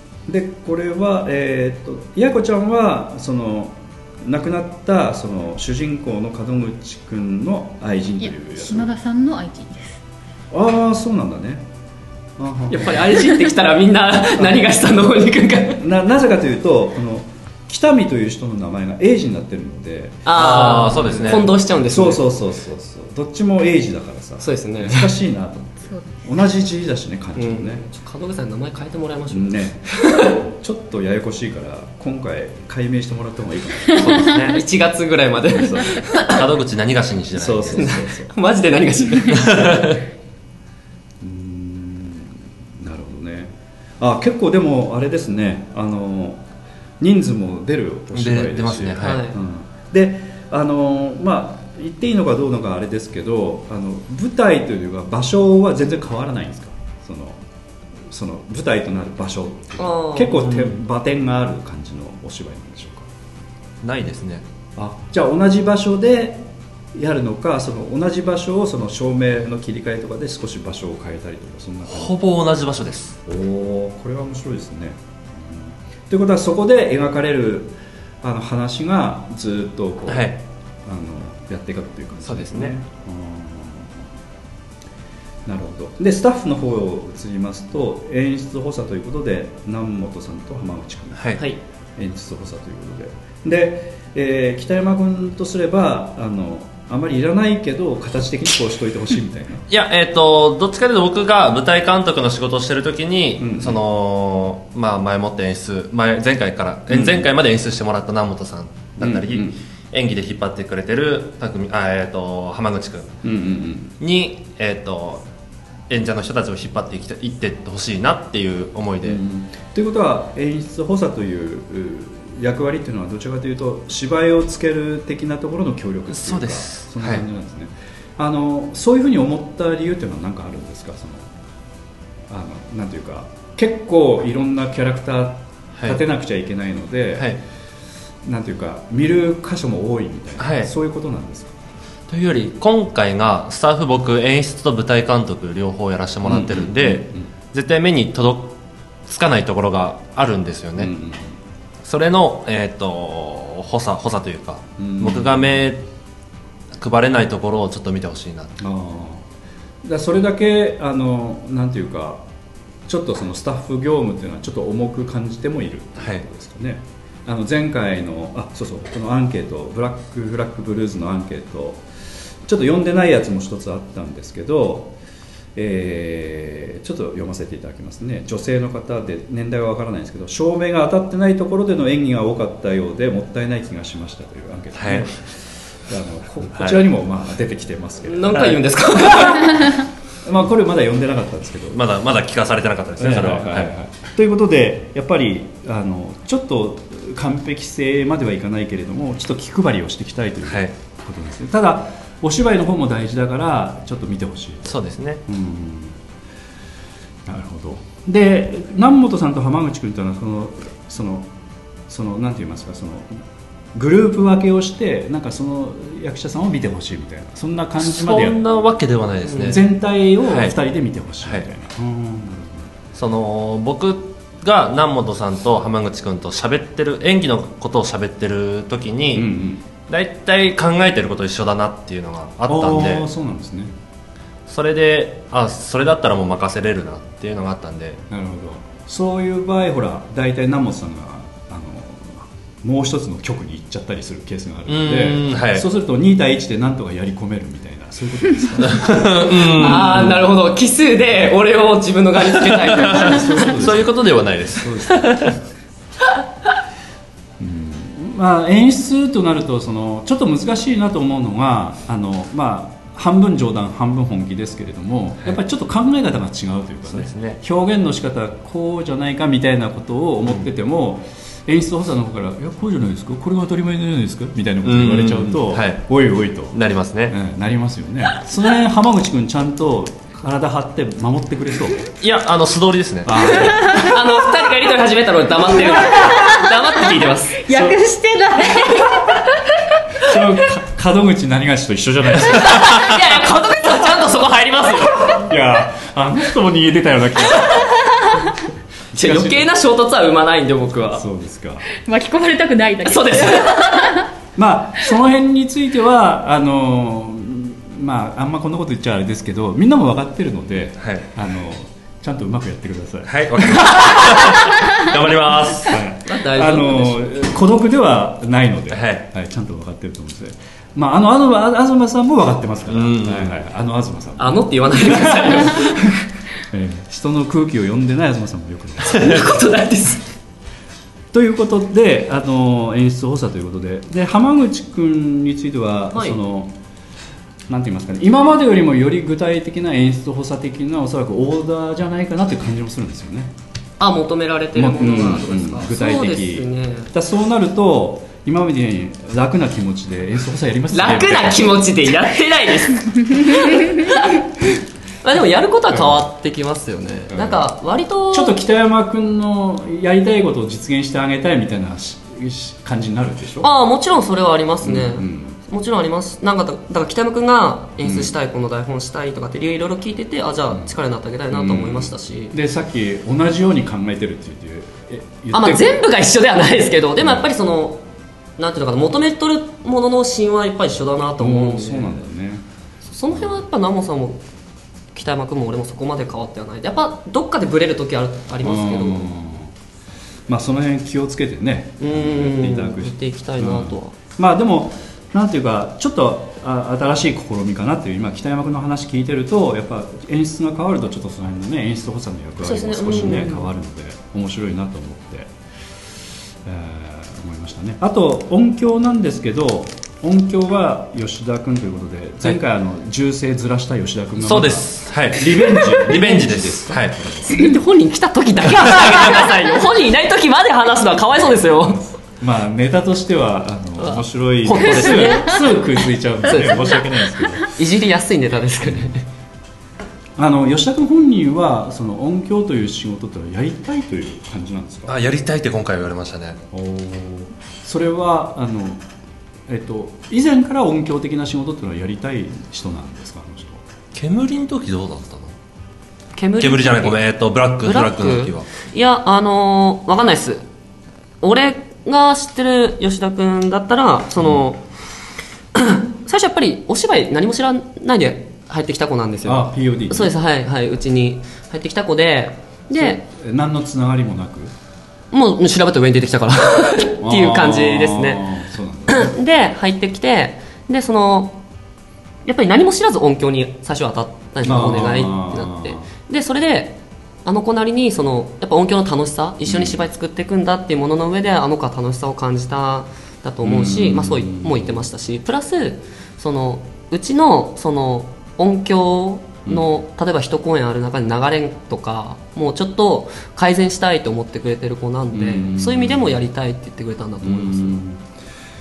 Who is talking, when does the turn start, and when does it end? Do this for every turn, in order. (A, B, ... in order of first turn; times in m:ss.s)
0:00.3-0:08.9 A
0:08.2-0:10.0 B
0:10.5-0:11.7 A
0:12.4-0:13.3 A
0:12.7-0:15.8 C
0:14.4-0:14.7 A
0:15.8-0:27.8 A
0:20.3-0:22.3 C
0:20.3-0:21.5 D
0:24.4-0:25.1 C
0:25.9-0:26.2 B
0:27.4-0:30.4 C
0:29.3-0:34.3 A
0:34.0-0:34.6 D
0:34.4-0:36.4 C
0:36.3-0:37.9 D
0:37.3-0:38.3 A
0:37.7-0:39.9 C
0:39.3-0:40.0 D
0:41.2-0:46.4 A
0:47.0-0:57.4 A
0:48.1-0:49.3 D
0:49.0-0:49.4 C
0:58.1-1:03.1 A
0:59.8-1:00.7 C
1:03.8-1:04.4 D
1:04.8-1:12.2 A
1:11.9-1:13.2 D
1:13.3-1:24.0 A
1:20.1-1:20.4 D
1:22.2-1:22.8 D
1:25.5-1:31.4 A
1:32.0-1:39.6 A
1:39.7-1:53.1 D
1:43.4-1:43.8 A
1:46.9-1:47.3 A
1:49.0-1:49.6 A
1:53.2-1:54.0 A
1:54.0-1:55.2 D
1:55.9-1:59.2 D
1:59.0-2:11.3 A
2:06.1-2:07.2 D
2:12.3-2:17.4 A
2:18.2-2:21.6 A
2:20.4-2:20.7 D
2:22.1-2:28.6 D
2:26.2-2:27.3 A
2:29.1-2:30.9 D
2:30.8-2:31.4 A
2:31.8-2:35.8 D
2:34.8-2:35.6 A
2:36.8-2:38.6 D
2:38.6-2:39.2 A
2:39.8-2:42.2 A
2:42.9-2:51.8 A
2:46.0-2:46.2 D
2:52.4-2:55.0 A
2:55.6-3:09.4 A
3:04.8-3:05.1 D
3:06.5-3:06.9 D
3:08.0-3:09.7 C
3:10.2-3:11.8 A
3:11.7-3:13.7 D
3:13.0-3:24.8 A
3:20.5-3:20.7 D
3:24.7-3:25.2 D
3:25.3-3:26.0 A
3:27.3-3:31.3 A
3:31.9-3:33.2 A
3:33.7-3:38.4 A
3:37.8-3:39.7 D
3:39.4-3:42.7 A
3:40.3-3:40.6 D
3:43.0-3:49.3 D
3:49.1-3:49.6 A
3:49.9-3:53.1 D
3:52.5-3:53.7 A
3:54.5-3:58.0 D
3:58.1-4:10.2 A
4:04.7-4:05.7 D
4:08.6-4:10.1 D
4:09.5-4:13.5 C
4:12.5-4:15.4 D
4:12.9-4:15.4 A
4:17.4-4:41.9 A
4:26.9-4:27.4 D
4:34.6-4:36.0 D
4:36.5-4:37.2 D
4:42.0-4:43.5 D
4:43.1-4:43.9 A
4:43.6-4:47.4 C
4:46.0-4:46.3 B
4:47.4-4:49.2 B
4:47.5-4:47.8 A
4:50.0-4:52.9 A
4:52.3-4:55.2 C
4:55.1-4:57.7 A
4:58.9-4:59.5 A
4:58.9-5:01.0 C
5:00.9-5:01.7 A
5:01.7-5:04.0 B
5:02.8-5:04.0 C
5:04.4-5:14.5 A
5:10.8-5:11.1 D
5:13.1-5:15.8 D
5:15.7-5:29.3 A
5:16.0-5:17.2 C
5:18.7-5:19.1 D
5:22.7-5:23.4 D
5:24.2-5:25.8 C
5:28.9-5:30.1 C
5:31.1-5:36.5 A
5:35.9-5:36.2 C
5:37.5-5:43.3 A
5:43.8-5:46.9 C
5:44.6-5:51.7 A
5:50.7-5:54.2 C
5:55.0-5:58.4 C
5:55.7-5:56.0 A
5:57.1-5:57.5 A
5:58.1-6:03.5 A
6:03.4-6:12.4 C
6:04.6-6:05.4 A
6:07.8-6:08.1 A
6:10.5-6:10.8 A
6:11.3-6:15.8 A
6:15.3-6:17.8 C
6:18.4-6:22.0 C
6:21.2-6:22.4 A
6:22.9-6:24.2 C
6:23.1-6:23.4 A
6:24.9-6:29.1 C
6:28.4-6:29.5 A
6:30.3-6:45.3 A
6:31.8-6:34.0 C
6:42.4-6:43.5 C
6:46.4-6:57.5 A
6:54.2-6:57.0 D
6:57.3-7:01.9 C
7:02.0-7:07.5 A
7:03.8-7:05.5 C
7:06.2-7:06.8 C
7:07.5-7:09.0 C
7:10.2-7:15.0 A
7:14.9-7:16.4 D
7:16.5-7:18.8 A
7:19.5-7:23.6 A
7:24.0-7:25.3 D
7:26.2-7:27.0 C
7:26.4-7:28.5 D
7:27.6-7:30.4 C
7:31.2-7:34.6 C
7:35.6-7:43.0 C
7:39.2-7:40.1 A
7:42.7-7:44.5 A
7:45.1-7:48.3 C
7:47.0-7:49.1 A
7:48.9-7:51.4 C
7:52.3-8:17.8 C
7:54.4-7:55.9 A
7:59.5-7:59.7 A
8:03.4-8:04.9 A
8:15.1-8:16.2 A
8:17.2-8:18.0 A